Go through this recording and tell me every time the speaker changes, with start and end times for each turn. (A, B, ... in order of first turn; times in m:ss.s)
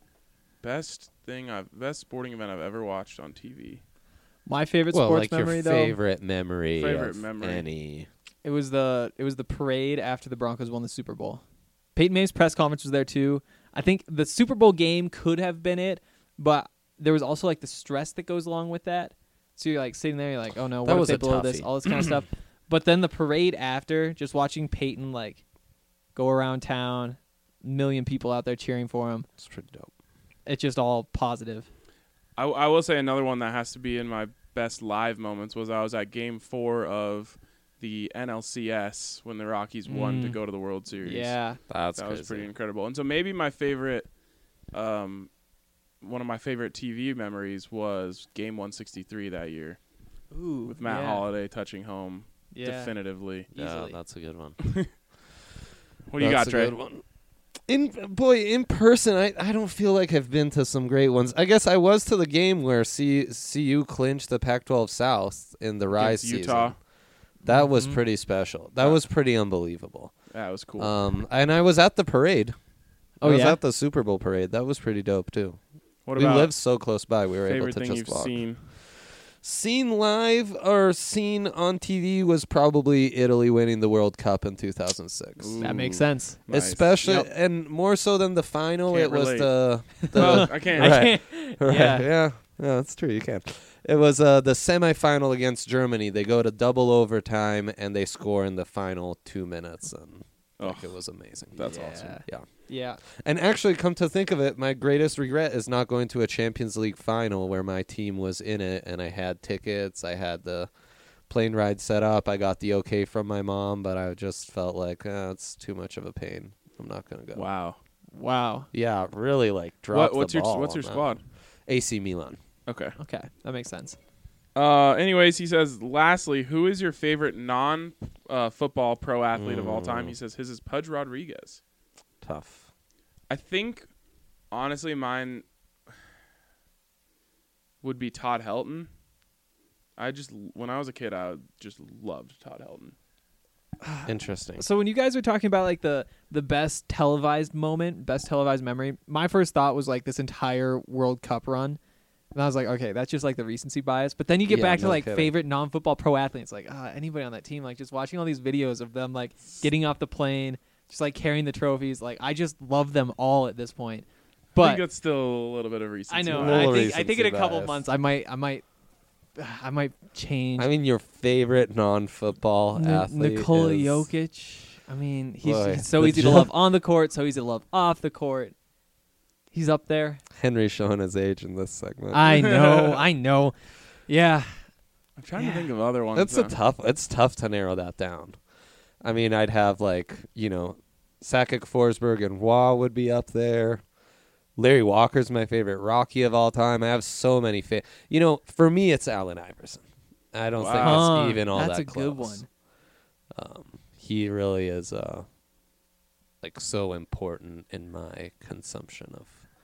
0:00.6-0:03.8 A
0:04.4-0:06.0 B
0:04.9-0:08.1 C
0:06.8-0:07.6 A
0:08.4-0:11.4 B
0:12.0-0:25.4 B
0:20.8-0:21.7 C
0:26.1-0:29.3 B
0:29.4-0:29.9 C
0:30.4-0:31.7 B
0:32.4-0:41.4 A
0:39.9-0:40.4 B
0:41.0-0:41.6 B
0:41.7-0:42.5 C
0:42.0-0:44.1 A
0:44.7-0:45.3 A
0:46.0-0:49.8 A
0:50.3-0:51.2 B
0:50.7-0:53.5 A
0:52.5-0:52.9 B
0:53.5-0:54.6 C
0:53.5-0:54.0 B
0:54.6-0:54.9 A
0:56.1-0:56.7 A
0:56.2-0:57.0 C
0:57.7-1:06.8 C
1:05.9-1:06.8 A
1:07.4-1:08.0 B
1:07.4-1:10.1 C
1:10.3-1:10.9 A
1:10.8-1:12.6 C
1:13.2-1:13.6 B
1:13.2-1:15.6 C
1:16.0-1:16.5 A
1:16.2-1:25.8 C
1:17.5-1:18.6 A
1:25.4-1:26.9 A
1:25.6-1:26.4 B
1:26.5-1:42.5 C
1:27.0-1:27.3 B
1:28.9-1:31.2 A
1:30.0-1:32.1 B
1:40.6-1:41.0 A
1:41.5-1:41.9 A
1:41.6-1:43.0 B
1:43.0-1:50.7 C
1:51.3-1:57.5 C
1:57.3-1:57.8 A
1:58.1-1:58.7 B
1:58.7-2:01.0 C
1:59.9-2:01.2 A
2:01.7-2:02.4 C
2:02.6-2:02.9 A
2:03.0-2:04.0 B
2:04.5-2:11.6 A
2:09.3-2:10.1 C
2:12.2-2:12.7 C
2:13.3-2:13.9 A
2:14.5-2:15.4 A
2:17.8-2:18.9 A
2:20.0-2:22.9 A
2:23.8-2:31.8 B
2:24.0-2:24.6 C
2:32.3-2:44.8 B
2:34.4-2:35.3 C
2:44.5-2:46.8 A
2:46.1-2:48.6 B
2:46.3-2:47.8 C
2:49.4-2:50.7 B
2:50.6-2:54.1 C
2:52.7-2:58.5 B
2:55.4-2:56.5 C
2:59.5-3:00.2 B
3:00.4-3:02.3 C
3:02.1-3:04.6 B
3:02.3-3:03.0 A
3:05.2-3:06.5 A
3:05.4-3:05.7 B
3:06.1-3:08.4 C
3:09.0-3:13.8 C
3:14.6-3:22.4 C
3:20.6-3:21.2 A
3:20.8-3:22.5 B
3:23.3-3:25.2 C
3:26.4-3:29.4 C